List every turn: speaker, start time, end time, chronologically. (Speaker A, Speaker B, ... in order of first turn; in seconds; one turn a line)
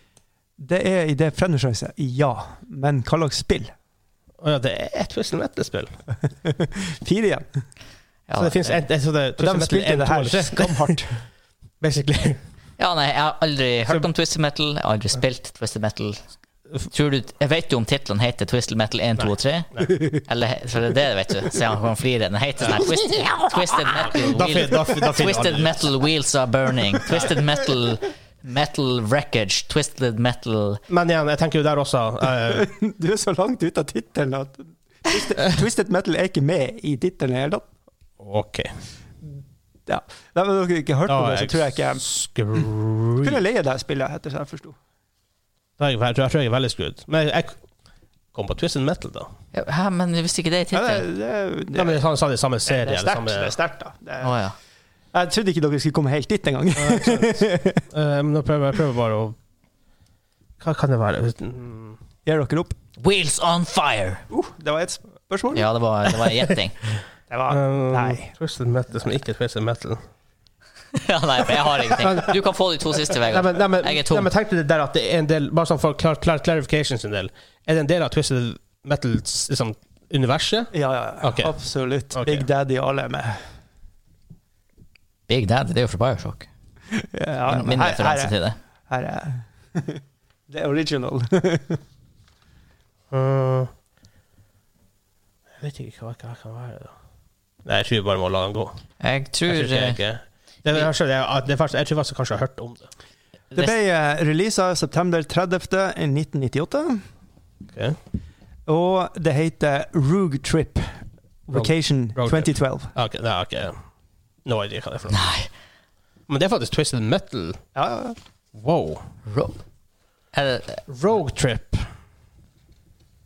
Speaker A: 0.6-3.7
Speaker B: 4.4-6.0
Speaker A: 6.4-7.5
Speaker C: 8.3-8.8
Speaker B: 8.4-10.8
Speaker A: 9.4-11.2
Speaker B: 11.8-12.4
Speaker C: 12.8-16.2
Speaker C: 16.9-30.8
Speaker B: 19.2-19.9
Speaker B: 24.1-25.8
Speaker B: 30.9-32.7
Speaker A: 32.5-37.7
Speaker B: 38.2-38.7
Speaker A: 39.9-42.0
Speaker B: 41.1-43.4
Speaker A: 43.2-44.8
Speaker B: 45.8-47.6
Speaker B: 48.3-49.3
Speaker C: 49.5-51.0
Speaker A: 50.7-52.0
Speaker B: 51.8-53.6
Speaker A: 52.7-54.4
Speaker C: 54.2-54.6
Speaker A: 55.1-57.9
Speaker B: 56.8-59.4
Speaker B: 60.6-62.0
Speaker A: 62.2-62.8
Speaker C: 63.0-64.2
Speaker A: 64.3-65.7
Speaker C: 65.5-66.8
Speaker A: 67.3-68.3
Speaker B: 67.5-70.0
Speaker C: 70.9-74.3
Speaker B: 71.8-72.4
Speaker B: 73.1-81.5
Speaker A: 80.7-83.4
Speaker B: 82.1-82.5
Speaker C: 85.3-86.5
Speaker A: 86.9-88.4
Speaker C: 87.5-88.6
Speaker A: 88.9-91.8
Speaker B: 93.1-93.7
Speaker B: 95.6-96.9
Speaker B: 97.7-98.8
Speaker C: 99.0-100.0
Speaker B: 99.5-102.9
Speaker A: 103.5-107.0
Speaker A: 108.7-112.9
Speaker B: 111.5-113.8
Speaker B: 114.5-115.2
Speaker C: 115.1-115.5
Speaker B: 116.3-117.6
Speaker A: 117.8-118.2
Speaker B: 118.5-119.0
Speaker C: 119.3-119.6
Speaker C: 120.3-120.8
Speaker B: 120.9-121.9